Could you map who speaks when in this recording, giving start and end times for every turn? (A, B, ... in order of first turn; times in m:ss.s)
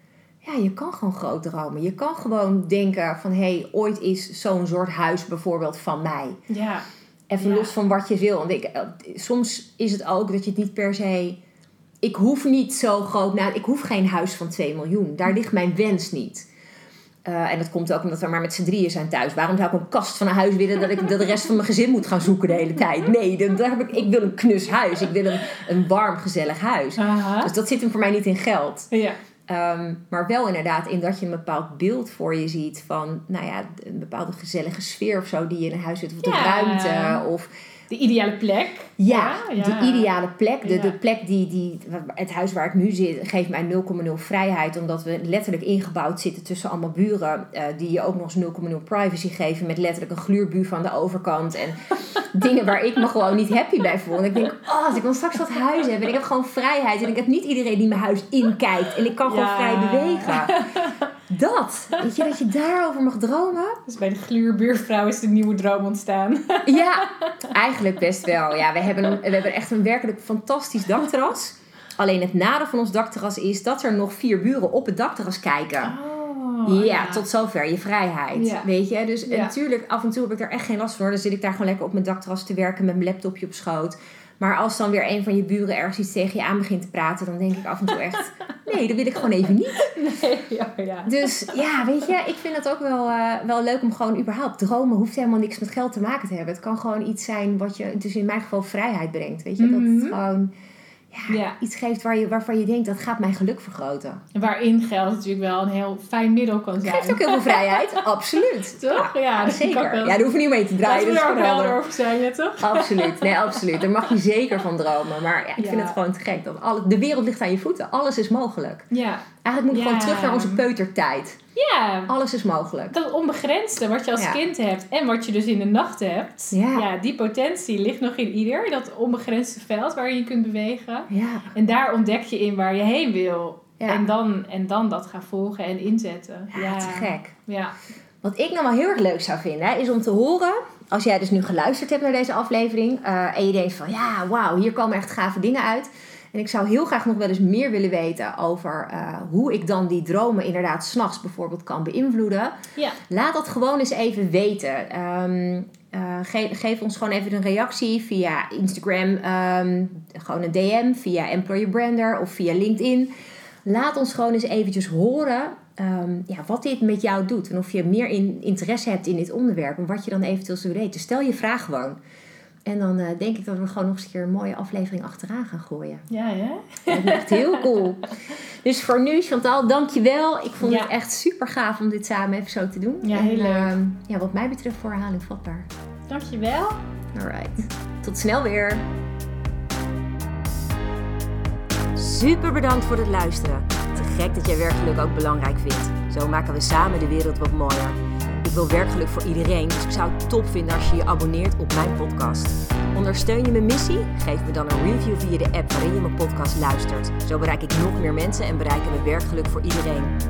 0:00.4-0:06.4 A
0:06.5-0:06.9 B
0:07.3-0:11.4 A
0:07.4-0:07.7 B
0:12.0-0:16.5 A
0:17.2-0:28.9 A
0:27.0-0:27.5 B
0:28.9-0:29.2 B
0:29.5-0:37.5 A
0:36.2-0:37.2 B
0:37.9-0:40.1 B
0:39.0-1:00.6 A
0:40.6-0:41.0 B
0:52.0-0:52.3 B
0:59.2-1:01.1 B
1:01.3-1:03.8 A
1:01.9-1:02.3 B
1:03.9-1:07.6 B
1:06.6-1:16.0 A
1:15.8-1:17.2 B
1:16.6-1:29.9 A
1:18.3-1:18.7 B
1:19.3-1:19.5 B
1:29.8-1:31.6 B
1:31.0-1:40.5 A
1:39.6-1:40.2 B
1:41.1-1:44.2 A
1:41.3-1:41.6 B
1:44.3-1:48.1 B
1:46.8-1:51.8 A
1:48.7-1:50.2 B
1:50.8-1:54.1 B
1:52.6-1:58.9 A
1:55.6-1:56.0 B
1:58.9-2:00.6 B
1:59.4-2:01.4 A
2:01.6-2:02.1 B
2:02.1-2:03.0 A
2:02.9-2:17.7 B
2:06.5-2:06.9 A
2:11.1-2:11.5 A
2:13.8-2:14.1 A
2:16.5-2:17.3 A
2:18.2-2:32.5 A
2:33.0-2:43.1 A
2:43.6-2:52.0 A
2:52.7-2:56.0 A
2:56.1-2:57.8 B
2:56.9-3:05.7 A
3:00.6-3:00.9 B
3:03.0-3:03.8 B
3:06.1-3:06.8 B
3:07.1-3:08.9 A
3:12.0-3:30.1 A